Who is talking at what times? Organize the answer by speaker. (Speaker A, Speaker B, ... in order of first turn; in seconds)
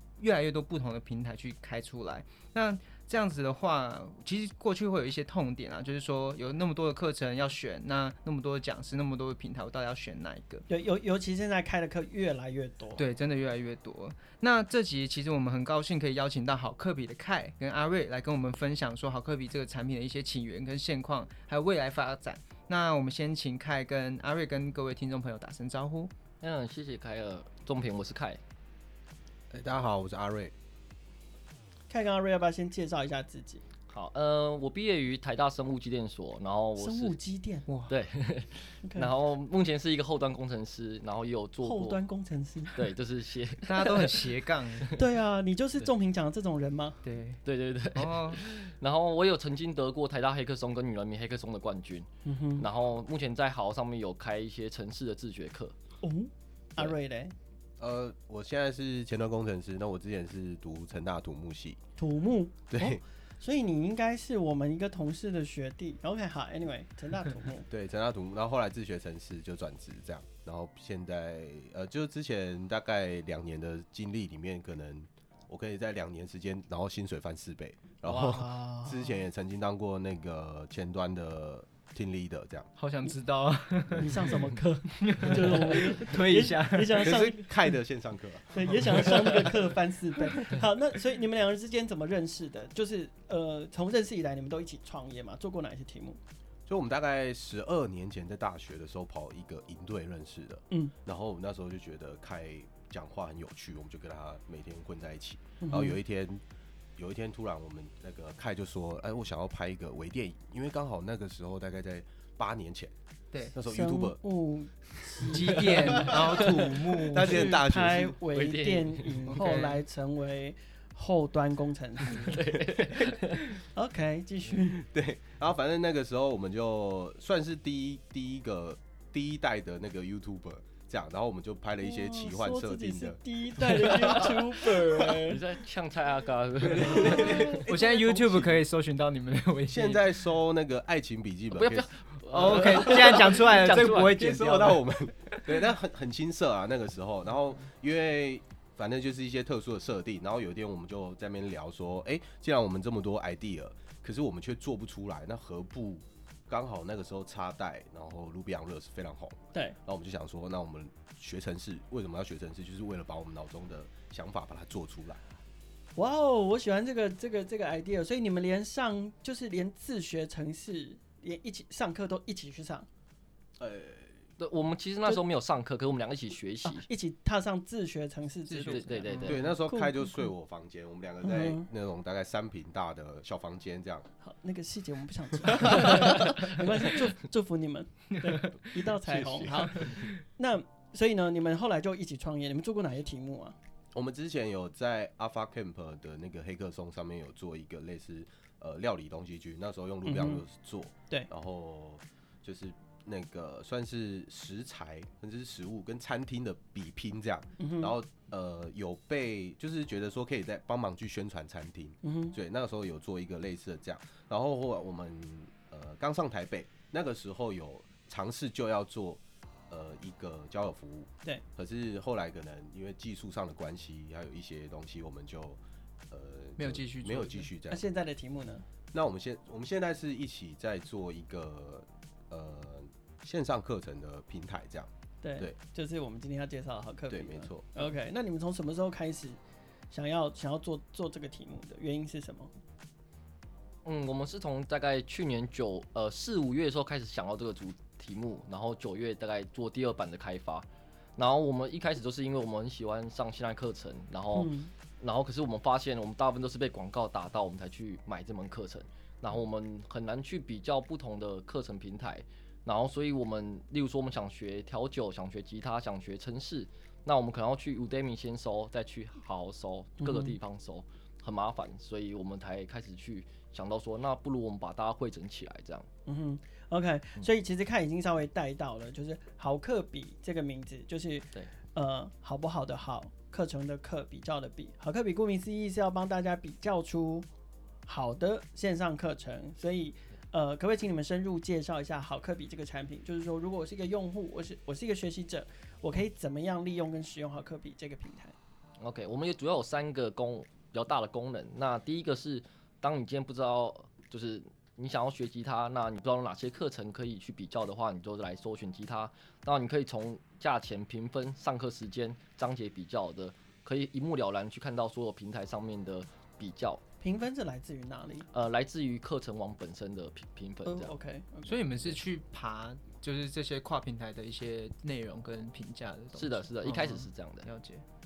Speaker A: 0.2-10.6, 13.0-26.1, 37.7-38.0, 43.6-45.0, 47.0-47.4, 47.9-48.4, 82.8-87.3, 115.3-117.6, 119.3-119.8, 137.7-140.0, 142.3-145.5, 178.5-179.4, 188.2-188.5, 189.5-190.2, 226.6-227.5, 321.4-327.8
Speaker B: 10.7-13.0, 31.9-33.6, 36.8-37.7, 38.8-39.1, 41.6-42.9, 44.9-47.0, 52.2-52.7, 56.0-57.3, 62.0-67.7, 78.0-79.2, 83.9-87.5, 88.5-96.2, 105.6-106.0, 113.6-122.4, 123.7-124.8, 131.8-135.4, 165.9-172.9, 176.6-180.3, 181.2-181.7, 184.2-193.6, 200.1-200.4, 207.6-207.9, 212.0-212.3, 227.7-228.6, 235.2-239.4, 239.9-242.5, 254.3-254.7, 270.0-270.4, 276.1-287.3, 287.9-298.3, 317.0-318.3, 320.6-321.6
Speaker C: 26.4-28.4, 33.9-37.1, 37.9-42.0, 42.7-45.0, 47.4-55.7, 118.3-119.4, 122.1-123.5, 135.2-137.6, 141.5-144.2, 174.4-176.9, 178.7-179.4, 243.8-275.9, 298.8-316.8, 318.3-320.9, 326.1-327.5
Speaker D: 29.5-30.5, 57.8-61.8, 62.7-63.0, 67.7-82.7, 87.0-89.5, 96.7-106.4, 107.0-112.9, 113.5-114.2, 114.9-118.2, 124.8-134.9, 136.6-138.6, 139.7-165.2, 173.6-174.3, 179.2-184.1, 189.1-190.1, 193.9-227.8, 228.9-235.6, 237.1-237.8